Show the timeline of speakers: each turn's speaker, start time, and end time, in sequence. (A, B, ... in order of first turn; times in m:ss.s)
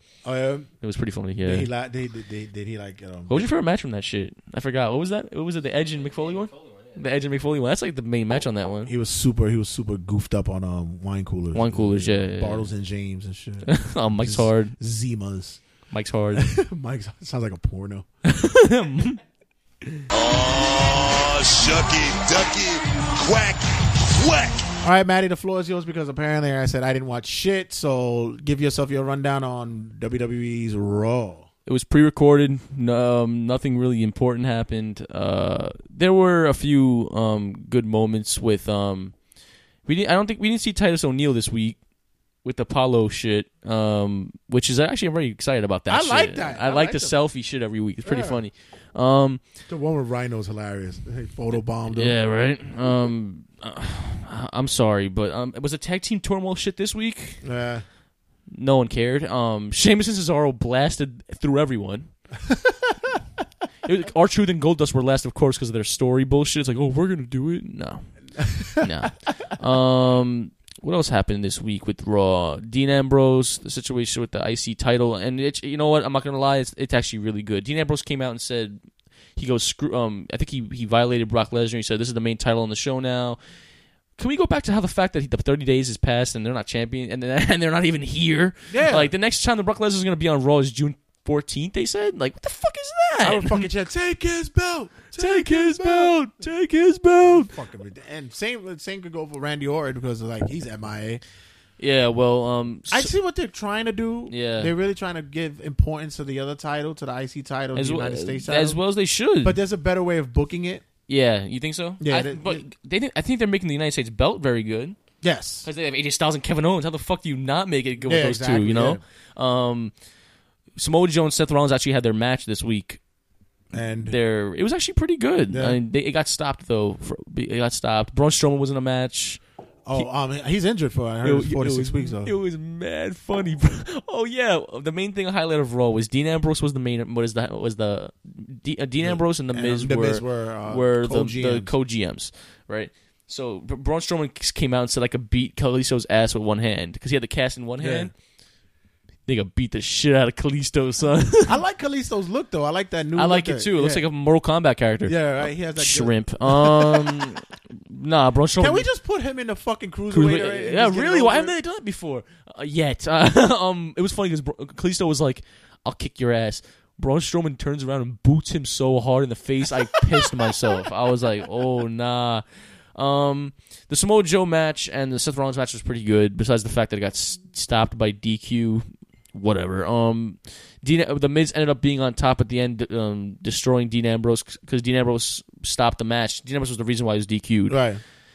0:00.2-0:00.7 A
0:00.8-0:01.7 B
0:01.4-0:03.5 A
0:03.3-0:08.9 B
0:08.8-0:15.6 A
0:11.5-0:12.7 B
0:13.6-0:14.7 B
0:15.9-0:16.5 B
0:16.3-0:18.0 A
0:18.2-0:19.2 B
0:20.1-0:24.7 C
0:24.8-0:31.5 A
0:31.6-0:39.1 B
0:39.8-0:41.8 B
0:42.4-0:49.4 B
0:45.9-0:47.2 A
0:48.0-0:48.4 A
0:49.7-0:52.2 A
0:51.5-0:57.4 B
0:57.4-0:57.8 A
0:58.5-1:02.1 B
1:02.4-1:03.1 A
1:03.8-1:18.8 B
1:08.4-1:08.8 A
1:19.4-1:23.4 B
1:24.2-1:33.7 B
1:28.7-1:29.1 A
1:33.2-1:36.2 A
1:35.1-1:37.5 B
1:37.2-1:41.2 A
1:41.8-1:43.1 B
1:42.9-1:48.8 A
1:44.3-1:44.7 B
1:47.7-1:49.6 B
1:49.4-1:50.8 A
1:51.1-1:55.0 B
1:52.0-1:52.6 A
1:55.2-1:55.7 A
1:55.6-1:59.9 B
1:58.0-1:59.0 A
2:00.8-2:03.0 B
2:03.7-2:04.2 A
2:04.0-2:09.4 B
2:05.5-2:05.8 A
2:09.8-2:12.3 A
2:11.2-2:28.1 B
2:19.0-2:21.7 A
2:27.8-2:28.1 A
2:29.3-2:31.6 B
2:31.4-2:34.0 A
2:33.2-2:38.9 B
2:35.0-2:37.3 A
2:38.6-2:41.5 A
2:40.1-2:52.4 B
2:52.9-3:07.8 B
3:07.7-3:08.0 A